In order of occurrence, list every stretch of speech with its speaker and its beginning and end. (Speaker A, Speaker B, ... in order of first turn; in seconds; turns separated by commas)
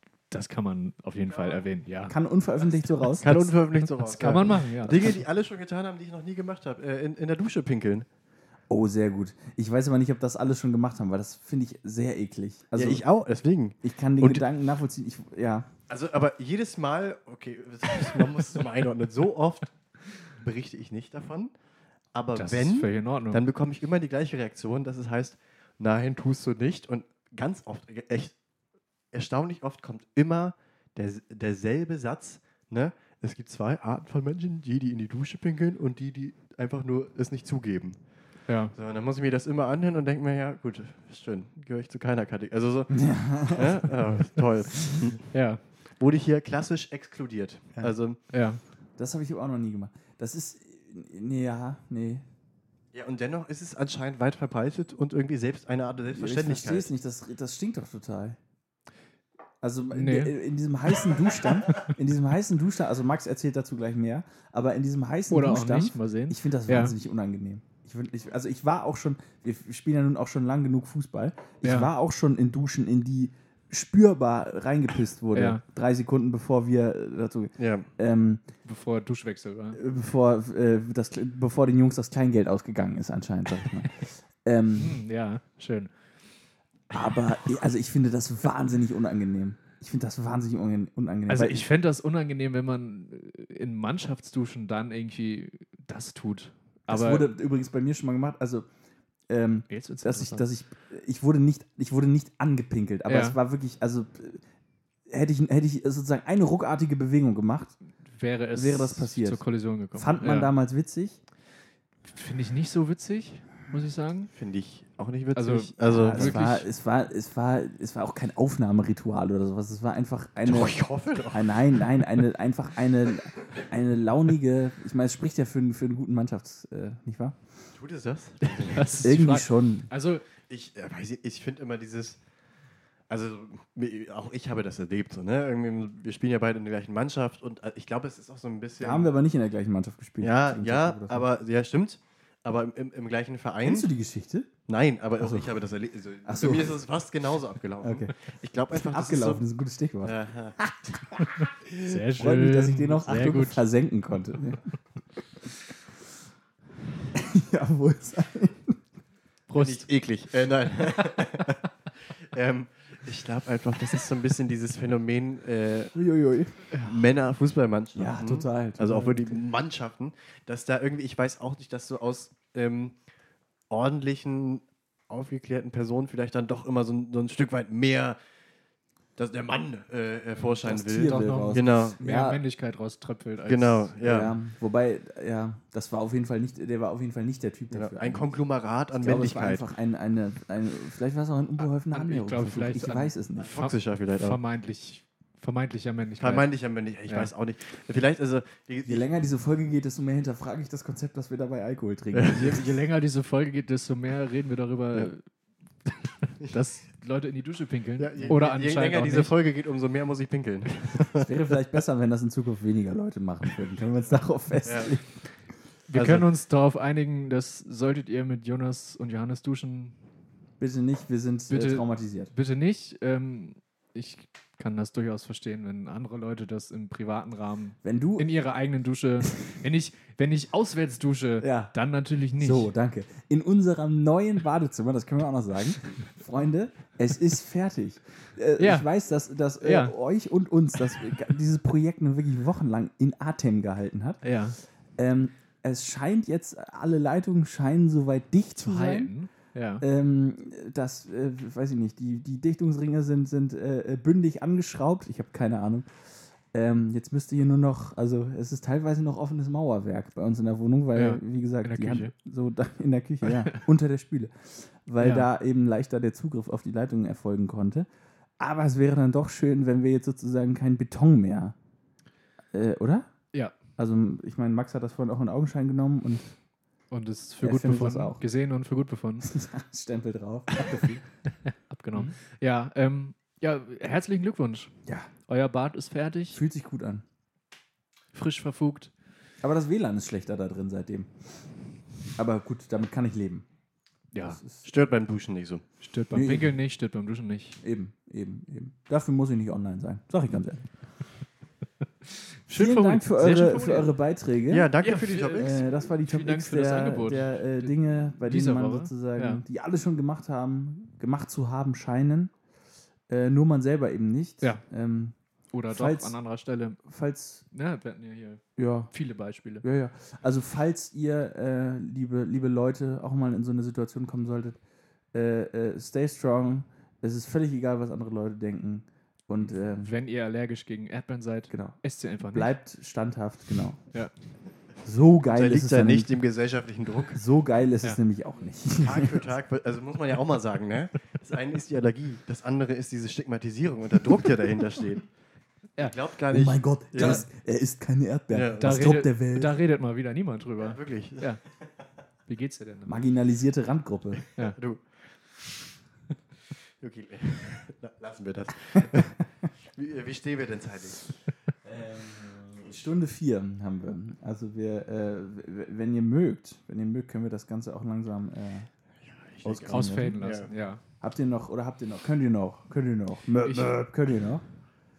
Speaker A: 0.3-2.2, Speaker B: 1.3-1.7, Speaker C: 2.1-3.5, Speaker B: 3.2-8.1, Speaker A: 3.3-5.1, Speaker C: 8.7-13.1, Speaker B: 12.8-14.4, Speaker C: 13.8-15.7, Speaker B: 15.9-19.7, Speaker B: 20.4-21.5, Speaker B: 22.1-28.3, Speaker A: 22.4-23.4, Speaker B: 29.1-38.0, Speaker A: 38.5-38.7, Speaker B: 38.7-45.3, Speaker C: 42.9-44.1, Speaker A: 45.3-45.6, Speaker B: 46.0-48.2, Speaker A: 48.3-48.6, Speaker C: 49.0-52.2, Speaker B: 52.9-56.9, Speaker C: 56.1-58.4, Speaker C: 59.6-78.4, Speaker A: 59.9-60.4, Speaker A: 65.3-67.0, Speaker A: 71.6-71.9, Speaker A: 75.3-75.6, Speaker B: 77.6-77.9, Speaker A: 78.7-79.8, Speaker C: 79.8-85.0, Speaker A: 84.8-85.9, Speaker C: 86.9-91.7, Speaker A: 91.3-97.3, Speaker C: 96.9-98.7, Speaker C: 99.3-104.4, Speaker A: 99.7-100.5, Speaker A: 103.1-103.4, Speaker C: 105.1-107.8, Speaker A: 108.1-110.5, Speaker C: 108.5-109.4, Speaker C: 109.9-111.2, Speaker A: 112.1-114.3, Speaker B: 114.3-116.4, Speaker A: 115.3-116.7, Speaker C: 115.9-120.8, Speaker B: 120.4-121.9, Speaker C: 121.3-127.4, Speaker B: 127.8-129.0, Speaker A: 128.4-130.2, Speaker C: 129.0-129.9, Speaker B: 130.5-132.2, Speaker B: 133.1-139.1, Speaker C: 138.8-141.3, Speaker B: 140.2-143.9, Speaker C: 143.6-144.5, Speaker B: 144.7-149.4, Speaker C: 145.2-145.5, Speaker C: 146.2-146.8, Speaker C: 147.8-148.1, Speaker C: 148.7-151.5, Speaker B: 150.0-150.6, Speaker A: 151.4-153.6, Speaker C: 152.1-154.7, Speaker C: 157.1-158.8, Speaker A: 159.5-159.9, Speaker B: 159.6-166.0, Speaker C: 165.9-166.6, Speaker A: 166.7-167.0, Speaker B: 166.8-173.0, Speaker C: 167.9-169.4, Speaker B: 173.7-178.2, Speaker B: 179.2-182.0, Speaker C: 180.6-182.4, Speaker A: 181.0-183.9, Speaker B: 183.5-184.4, Speaker C: 184.0-188.3, Speaker B: 187.7-189.7, Speaker C: 189.0-193.5, Speaker A: 191.9-196.5, Speaker B: 193.4-194.4, Speaker B: 196.2-199.1, Speaker C: 198.8-202.6, Speaker B: 202.1-202.6, Speaker A: 202.3-205.3, Speaker A: 205.9-209.3, Speaker B: 208.0-211.3, Speaker C: 211.2-215.2, Speaker B: 214.7-215.0, Speaker A: 215.9-220.0, Speaker B: 215.9-216.3, Speaker C: 220.6-222.3, Speaker A: 221.5-232.7, Speaker C: 227.8-228.3, Speaker C: 231.4-231.7, Speaker C: 232.4-244.2, Speaker A: 238.6-238.9, Speaker A: 239.6-239.9, Speaker A: 244.2-244.6, Speaker C: 245.0-249.1, Speaker A: 248.6-249.8, Speaker C: 249.8-255.9, Speaker C: 256.5-267.9, Speaker A: 260.9-262.1, Speaker A: 263.2-263.7, Speaker A: 265.0-265.3, Speaker C: 268.4-271.6, Speaker C: 272.5-273.1, Speaker C: 273.8-276.4, Speaker A: 276.9-279.3, Speaker C: 277.4-278.2, Speaker C: 279.2-281.1, Speaker A: 280.6-284.8, Speaker A: 285.3-286.4, Speaker C: 286.3-287.0, Speaker A: 288.1-288.9, Speaker C: 289.4-291.1, Speaker C: 292.2-293.5, Speaker A: 294.1-294.4, Speaker C: 294.2-294.6, Speaker B: 294.6-295.6, Speaker A: 295.8-297.6, Speaker C: 296.1-296.6, Speaker C: 297.6-300.6, Speaker A: 302.1-303.9, Speaker C: 302.5-304.7, Speaker B: 304.5-305.7, Speaker A: 304.8-309.4, Speaker C: 305.3-312.3, Speaker C: 313.1-315.2, Speaker A: 315.5-316.8, Speaker C: 315.7-316.1, Speaker C: 316.9-317.4, Speaker A: 317.5-319.6, Speaker C: 318.6-318.9, Speaker C: 319.6-324.6, Speaker C: 325.1-329.9, Speaker A: 329.8-332.5, Speaker C: 331.5-333.8, Speaker C: 334.8-336.1, Speaker B: 335.3-337.2, Speaker C: 337.1-339.3, Speaker B: 338.8-345.1, Speaker B: 345.8-347.2, Speaker C: 346.3-349.6, Speaker A: 347.0-347.2, Speaker B: 348.3-348.9, Speaker A: 348.6-351.4, Speaker B: 350.6-351.4, Speaker A: 352.3-353.1, Speaker C: 352.9-354.2, Speaker B: 354.3-354.8, Speaker B: 356.8-359.2, Speaker B: 359.7-361.1, Speaker C: 361.6-368.7, Speaker B: 369.3-370.5, Speaker C: 369.4-370.4, Speaker A: 369.7-370.8, Speaker C: 371.0-374.4, Speaker A: 373.4-373.8